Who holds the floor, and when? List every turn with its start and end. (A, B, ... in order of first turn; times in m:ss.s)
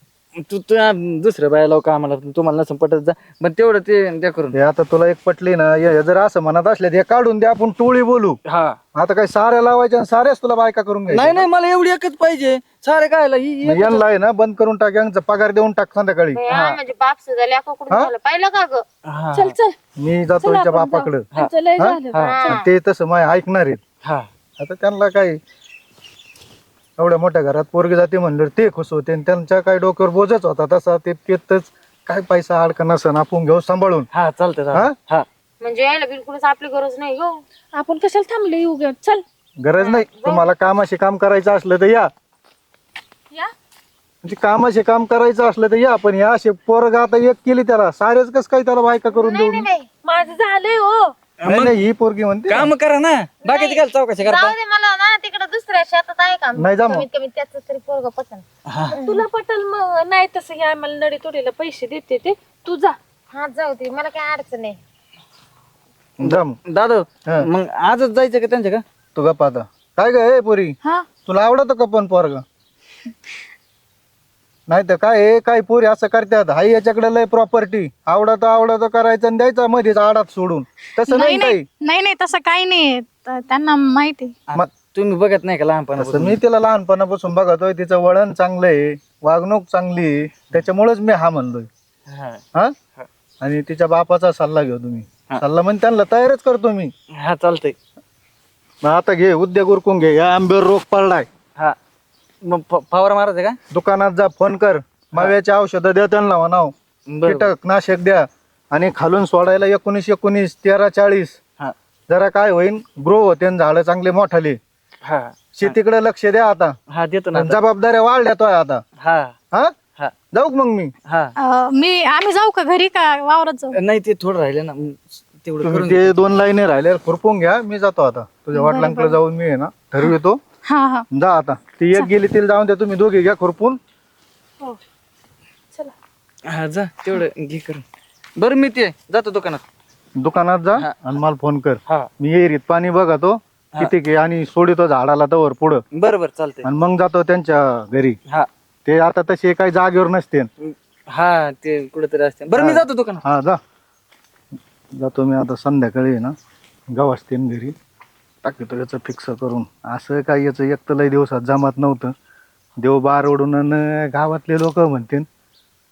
0:00.4-0:04.6 A
0:04.5-0:08.4 B
0:08.5-0:08.8 A
0:08.9-0:11.4 B
0:11.1-0:14.0 A
0:13.6-0:16.4 B
0:16.3-0:18.8 C
0:16.5-0:16.8 A
0:19.1-0:19.5 A
0:19.3-0:19.7 D
0:20.0-0:23.8 B
0:20.4-0:22.2 D
0:22.2-0:22.7 C
0:24.6-0:25.4 B
0:27.0-0:34.1 B
0:34.1-0:35.2 A
0:35.6-0:37.4 C
0:37.7-0:39.2 D
0:39.6-0:42.1 B
0:39.8-0:40.5 C
0:44.2-0:49.7 B
0:49.1-0:49.9 C
0:50.0-0:51.1 D
0:51.4-0:51.8 A
0:51.4-0:52.7 B
0:52.5-0:54.6 A
0:53.4-0:59.2 C
0:56.6-0:57.0 B
0:58.7-0:59.0 A
0:59.0-1:02.9 D
1:03.3-1:04.8 C
1:06.2-1:06.6 B
1:06.2-1:08.8 A
1:09.1-1:12.4 B
1:14.7-1:21.6 B
1:21.0-1:24.3 E
1:24.5-1:26.4 A
1:26.0-1:31.7 B
1:32.1-1:32.4 A
1:33.4-1:36.9 B
1:37.2-1:37.7 A
1:38.8-1:41.3 B
1:42.4-1:43.6 A
1:43.7-1:46.7 B
1:47.1-1:47.5 A
1:47.2-1:51.4 B
1:52.1-1:54.6 B
1:55.0-1:55.8 A
1:55.6-1:56.8 B
1:56.9-1:57.6 A
1:57.3-1:58.8 B
1:59.0-1:59.3 A
2:00.3-2:00.9 B
2:01.0-2:01.3 A
2:01.4-2:03.8 E
2:03.7-2:06.2 A
2:05.6-2:10.4 B
2:08.5-2:09.2 E
2:10.6-2:11.0 E
2:11.1-2:13.8 B
2:16.5-2:17.8 A
2:18.4-2:19.6 A
2:20.2-2:25.8 B
2:25.9-2:26.6 A
2:26.6-2:28.2 B
2:28.8-2:30.5 B
2:30.6-2:33.2 A
2:32.5-2:33.6 B
2:34.9-2:36.3 B
2:36.9-2:37.7 B
2:38.4-2:42.1 B
2:42.8-2:45.2 B